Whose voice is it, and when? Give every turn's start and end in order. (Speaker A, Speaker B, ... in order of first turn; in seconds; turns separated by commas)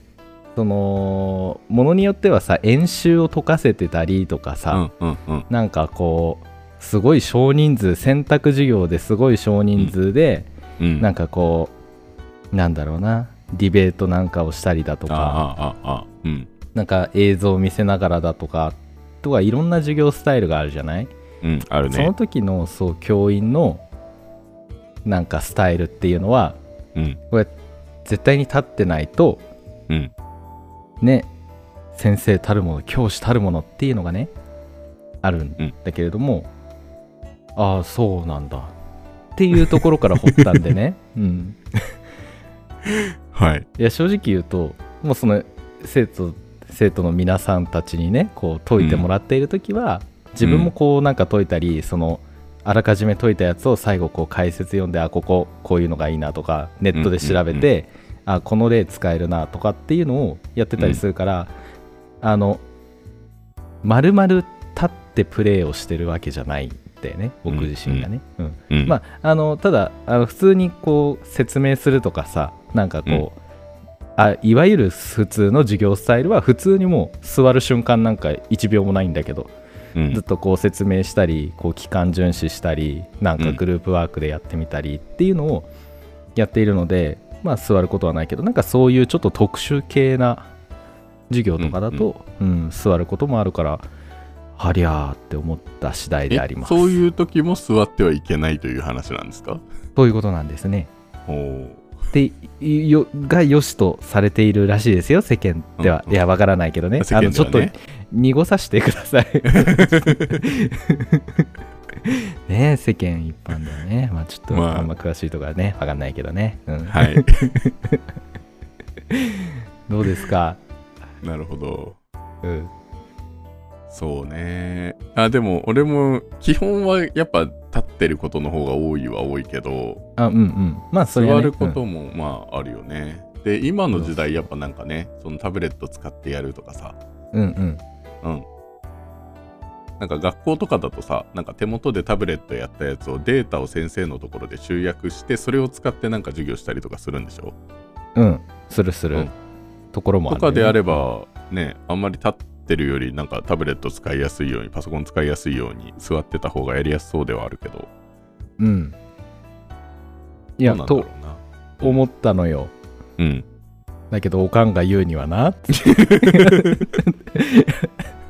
Speaker A: 0.6-4.8, Speaker B: 4.7-5.5, Speaker A: 5.5-11.7, Speaker B: 10.8-11.1, Speaker A: 12.5-15.4, Speaker B: 15.1-16.5, Speaker A: 16.8-21.1, Speaker B: 21.4-22.1, Speaker A: 21.9-23.8, Speaker A: 25.1-26.6, Speaker A: 28.1-29.4, Speaker A: 31.0-31.3, Speaker A: 31.9-34.3, Speaker A: 35.2-36.5, Speaker A: 37.6-38.8, Speaker A: 39.4-41.9, Speaker B: 40.3-40.7, Speaker B: 43.3-43.7, Speaker A: 43.8-61.5, Speaker B: 48.8-49.1, Speaker B: 50.4-50.7, Speaker B: 56.9-57.7, Speaker B: 60.8-61.0, Speaker A: 62.2-62.6, Speaker A: 63.8-73.4, Speaker B: 67.5-68.1, Speaker B: 68.7-69.0, Speaker A: 74.2-79.5, Speaker B: 80.0-80.2, Speaker A: 80.1-85.7, Speaker A: 86.3-90.5, Speaker A: 91.3-93.9, Speaker B: 91.6-92.1, Speaker A: 94.6-97.0, Speaker B: 96.3-99.6, Speaker A: 100.0-100.9, Speaker B: 101.3-102.0, Speaker A: 102.1-111.5, Speaker B: 105.8-106.2, Speaker B: 107.0-107.7, Speaker B: 109.5-110.4, Speaker A: 112.1-117.3, Speaker B: 114.5-114.9, Speaker B: 116.9-117.6, Speaker A: 119.9-120.6, Speaker B: 121.2-122.0, Speaker A: 122.4-122.7, Speaker B: 123.9-130.0, Speaker A: 130.2-131.8, Speaker B: 131.1-137.0, Speaker A: 133.9-134.5, Speaker A: 137.3-137.8, Speaker B: 140.0-147.6, Speaker A: 148.2-149.3, Speaker A: 149.9-151.0, Speaker B: 150.3-157.9, Speaker A: 158.6-159.0, Speaker A: 160.6-161.1, Speaker B: 160.6-162.0, Speaker A: 161.8-162.7, Speaker B: 163.2-163.5, Speaker A: 164.1-167.9, Speaker B: 166.2-166.8